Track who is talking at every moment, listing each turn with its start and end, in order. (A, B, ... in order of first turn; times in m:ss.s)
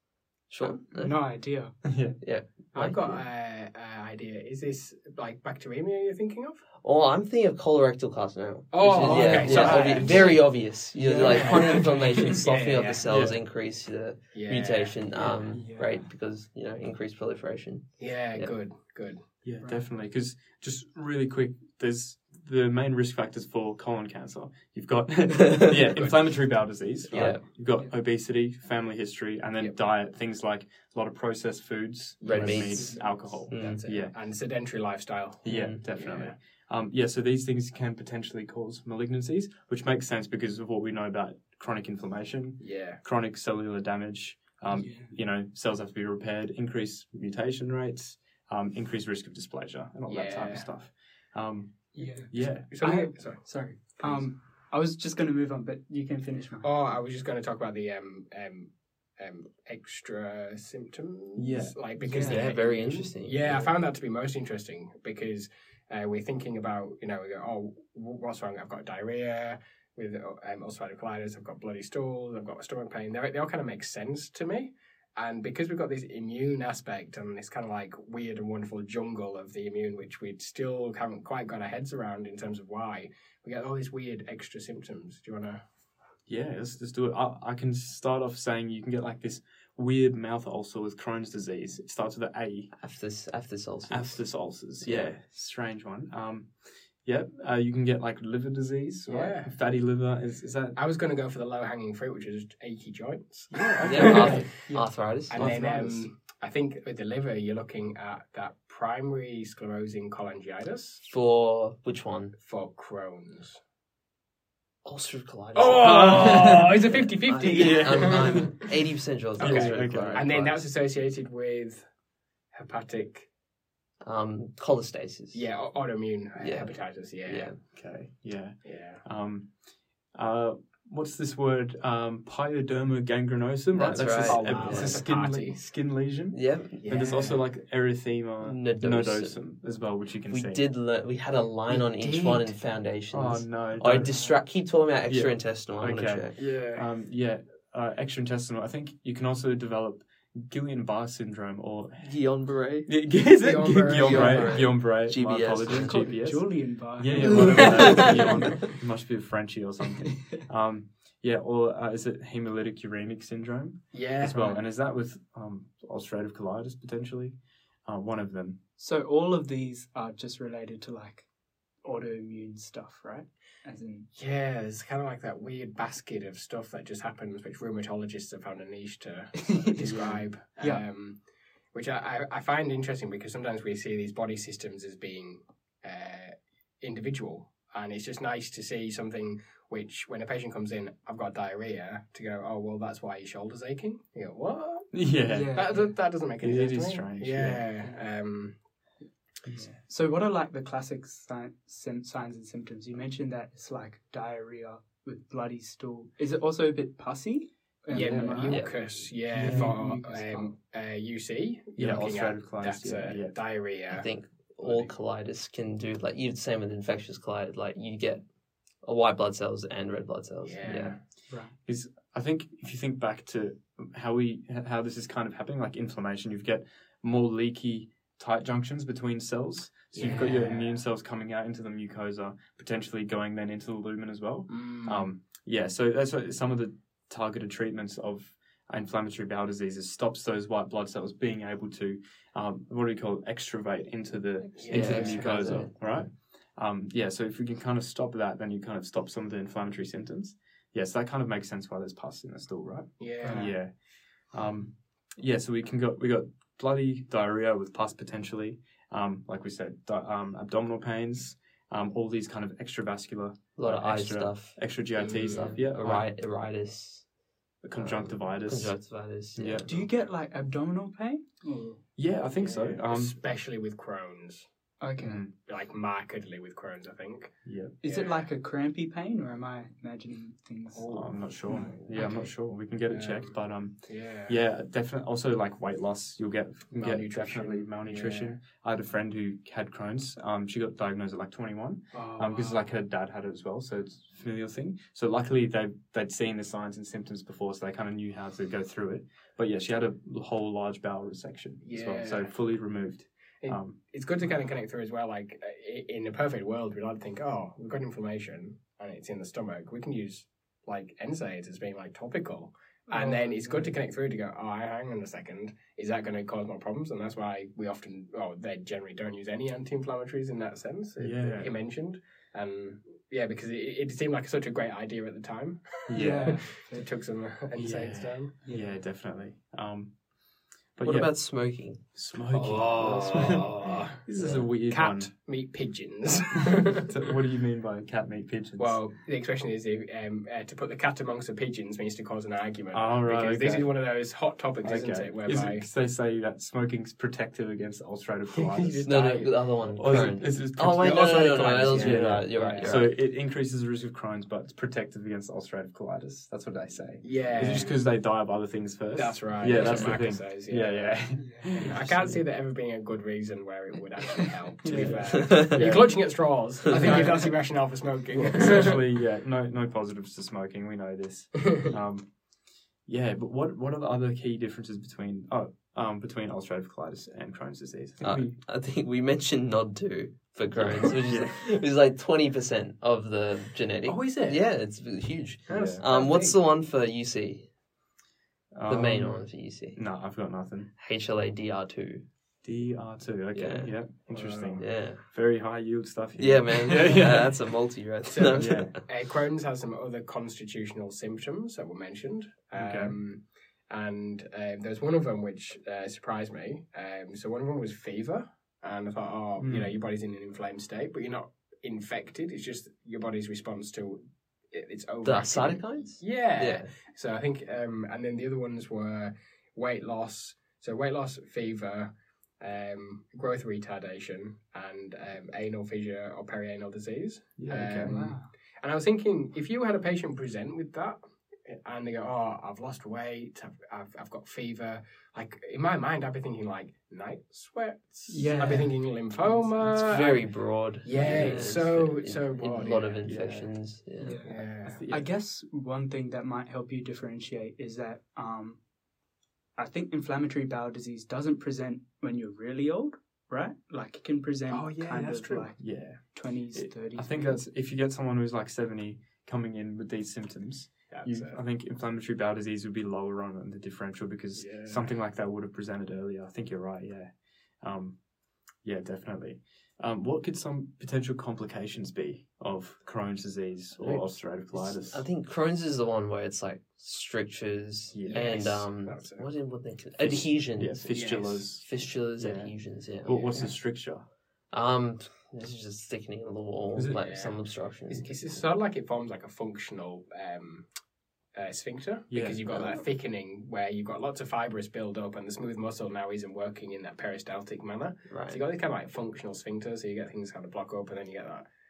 0:00.5-0:01.4 A
0:00.9-0:01.8 B
0:01.8-0:02.2 C
0:02.2-0:03.1 A
0:02.7-0:06.6 D
0:06.8-0:18.5 A
0:08.7-0:10.6 D
0:09.0-0:10.4 B
0:09.0-0:10.4 C
0:10.9-0:12.3 B
0:11.2-0:13.0 D
0:13.1-0:13.4 C
0:14.3-0:15.0 D
0:15.2-0:15.4 C
0:15.5-0:16.0 B
0:18.0-0:19.2 D
0:19.4-0:34.1 C
0:25.9-0:26.4 D
0:27.1-0:27.4 A
0:32.2-0:36.3 D
0:32.3-0:33.8 A
0:35.4-0:52.7 C
0:35.5-0:35.8 A
0:42.6-0:43.0 D
0:44.7-0:45.1 B
0:50.1-0:50.7 D
0:52.0-0:56.7 B
0:52.0-0:54.2 D
0:56.6-1:25.6 D
1:01.4-1:01.8 C
1:02.0-1:02.5 B
1:02.1-1:03.7 A
1:26.3-1:32.7 C
1:32.8-1:35.1 A
1:33.9-1:36.5 C
1:37.0-1:40.8 C
1:39.1-1:39.5 D
1:40.8-1:44.5 D
1:43.5-1:44.5 C
1:43.8-1:45.6 A
1:44.6-1:46.0 B
1:45.3-1:51.0 D
1:51.0-1:52.4 A
1:52.4-1:53.6 D
1:54.8-2:00.6 A
1:55.6-1:58.6 D
1:55.8-1:56.8 C
1:57.4-1:58.6 C
1:59.4-2:01.9 D
1:59.4-2:00.6 C
2:02.5-2:03.3 D
2:04.0-2:05.5 A
2:05.3-2:07.6 D
2:06.4-2:07.6 A
2:07.7-2:09.6 C
2:08.6-2:09.0 D
2:10.1-2:20.6 C
2:13.7-2:15.0 A
2:13.9-2:15.6 D
2:16.3-2:16.8 A
2:16.8-2:17.4 D
2:18.4-2:19.4 A
2:20.3-2:26.4 A
2:21.7-2:22.6 D
2:23.1-2:24.1 C
2:24.1-2:24.3 B
2:25.1-2:32.3 C
2:26.4-2:26.8 D
2:32.0-2:32.9 A
2:32.9-2:48.6 C
2:33.4-2:34.7 D
2:34.0-2:36.0 A
2:35.7-2:38.5 B
2:37.2-2:38.4 A
2:37.4-2:38.1 D
2:40.1-2:40.4 B
2:43.9-2:44.6 D
2:48.8-2:51.3 B
2:51.8-2:54.1 B
2:54.2-3:18.6 D
2:59.5-3:00.0 B
2:59.8-3:00.2 C
3:00.6-3:00.8 B
3:14.9-3:15.8 C
3:15.3-3:16.0 B
3:16.4-3:17.7 C
3:19.0-3:30.5 B
3:19.5-3:19.8 C
3:27.9-3:28.6 C
3:27.9-3:35.0 D
3:28.5-3:28.8 A
3:29.4-3:29.8 C
3:31.8-3:33.4 C
3:33.9-3:38.2 A
3:38.8-3:41.0 A
3:40.4-3:41.0 D
3:40.6-4:26.1 C
3:41.3-3:41.5 B
3:49.9-3:50.8 D
3:54.5-3:55.1 D
4:04.6-4:05.6 D
4:04.7-4:05.7 A
4:13.0-4:13.5 D
4:13.2-4:13.5 B
4:23.6-4:27.1 A
4:25.0-4:25.6 D
4:27.6-4:30.1 C
4:27.8-4:29.6 A
4:29.6-4:31.8 B
4:32.0-4:33.2 C
4:32.4-4:34.5 D
4:34.8-4:35.2 B
4:35.0-4:35.3 C
4:35.4-4:38.3 D
4:37.4-4:37.8 C
4:37.8-4:42.2 B
4:40.7-4:42.3 D
4:40.9-5:03.8 C
4:42.9-4:44.4 D
4:46.7-4:48.4 D
4:51.9-4:52.7 D
5:01.6-5:02.3 D
5:03.4-5:28.3 D
5:12.9-5:13.7 B
5:21.0-5:21.6 C
5:25.9-5:26.5 C
5:25.9-5:26.9 B
5:27.6-5:30.0 C
5:28.4-5:28.8 B
5:30.8-5:35.1 C
5:30.8-5:33.6 A
5:32.3-5:34.0 D
5:34.2-5:34.4 A
5:34.7-5:36.9 D
5:36.8-5:38.8 C
5:38.6-5:45.6 D
5:42.7-5:43.7 C
5:44.6-5:48.8 C
5:48.4-5:50.1 D
5:48.8-5:52.9 A
5:49.8-6:02.2 C
5:50.7-5:52.8 D
5:57.0-5:57.8 D
5:58.9-6:08.8 D
5:59.5-6:00.0 A
6:01.2-6:01.7 B
6:04.6-6:05.3 B
6:04.7-6:07.5 C
6:08.1-6:12.3 C
6:12.8-6:18.4 C
6:18.0-6:27.5 A
6:20.6-6:21.5 C
6:23.8-6:24.4 D
6:25.5-6:26.4 D
6:25.5-6:25.8 C
6:28.5-6:30.7 C
6:28.7-6:29.9 A
6:30.8-6:32.0 A
6:32.4-6:37.5 C
6:33.3-6:33.8 A
6:34.1-6:34.6 D
6:34.6-6:35.0 A
6:36.2-6:38.8 A
6:38.1-7:23.2 D
6:38.4-6:38.8 C
6:42.6-6:43.0 C
6:49.4-6:49.7 C
6:55.0-6:56.7 A
7:07.4-7:08.2 C
7:07.8-7:08.3 B
7:18.1-7:19.5 B
7:19.6-7:24.2 A
7:21.0-7:21.4 C
7:23.0-7:23.5 C
7:24.0-7:28.6 B
7:24.2-7:24.8 D
7:24.6-7:25.1 C
7:29.6-7:37.4 B
7:34.5-7:35.5 D
7:35.6-7:48.0 C
7:40.9-7:41.4 D
7:44.4-7:44.9 D
7:48.6-7:55.0 C
7:53.8-8:03.4 A
7:57.9-7:58.7 C
7:58.1-7:59.3 D
8:00.0-8:04.0 C
8:00.9-8:01.4 D
8:03.1-8:03.5 D
8:04.5-8:08.2 A
8:06.8-8:07.1 C
8:07.0-8:10.7 D
8:11.3-8:21.5 D
8:12.1-8:12.8 C
8:18.1-8:18.4 A